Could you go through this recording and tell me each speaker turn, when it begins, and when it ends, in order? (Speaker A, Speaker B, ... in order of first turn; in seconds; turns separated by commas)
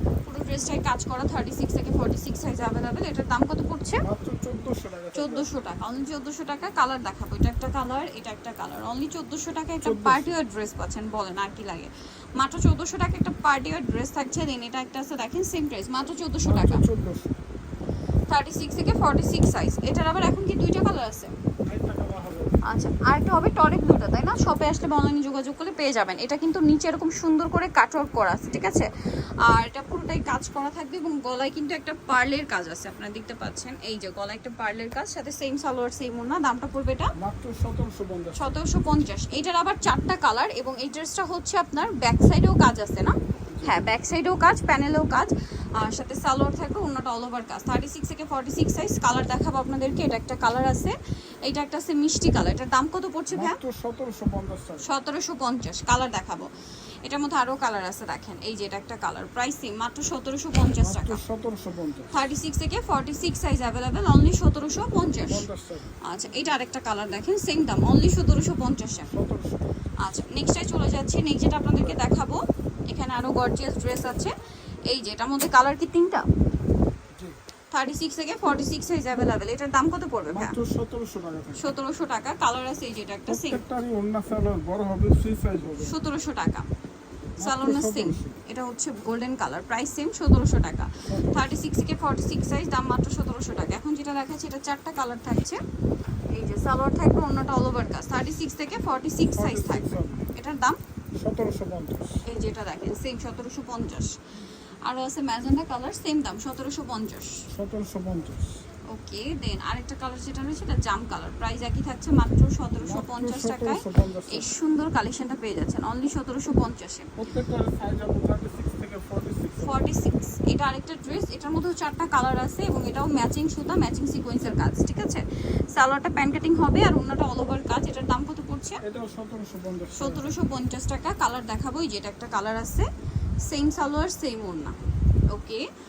Speaker A: 0.2-4.0, Speaker B: 4.0-5.5, Speaker A: 5.1-16.9, Speaker B: 9.8-10.3, Speaker B: 16.4-17.4, Speaker A: 18.3-21.3, Speaker B: 21.6-22.6, Speaker A: 22.6-28.9, Speaker A: 29.4-37.1, Speaker B: 37.2-38.5, Speaker A: 38.3-53.6, Speaker B: 43.4-43.9, Speaker B: 53.3-54.9, Speaker A: 54.8-56.5, Speaker A: 57.0-61.2, Speaker B: 60.6-62.2, Speaker A: 62.1-65.5, Speaker B: 65.2-65.9, Speaker A: 66.0-69.1, Speaker B: 69.1-69.7, Speaker A: 70.0-74.3, Speaker B: 71.8-72.1, Speaker A: 74.9-76.3, Speaker A: 77.7-80.6, Speaker B: 80.3-81.7, Speaker A: 81.5-83.6, Speaker B: 83.3-86.0, Speaker A: 85.8-86.7, Speaker B: 87.4-88.4, Speaker A: 87.4-95.6, Speaker B: 91.1-91.5, Speaker A: 96.3-100.8, Speaker B: 99.3-100.3, Speaker B: 101.2-102.2, Speaker A: 102.2-104.2, Speaker A: 104.8-107.5, Speaker B: 107.5-108.6, Speaker A: 108.9-117.1, Speaker B: 112.8-114.5, Speaker B: 117.2-119.9, Speaker A: 119.6-128.8, Speaker B: 128.8-130.3, Speaker A: 129.9-132.9, Speaker A: 133.4-134.8, Speaker A: 135.3-135.7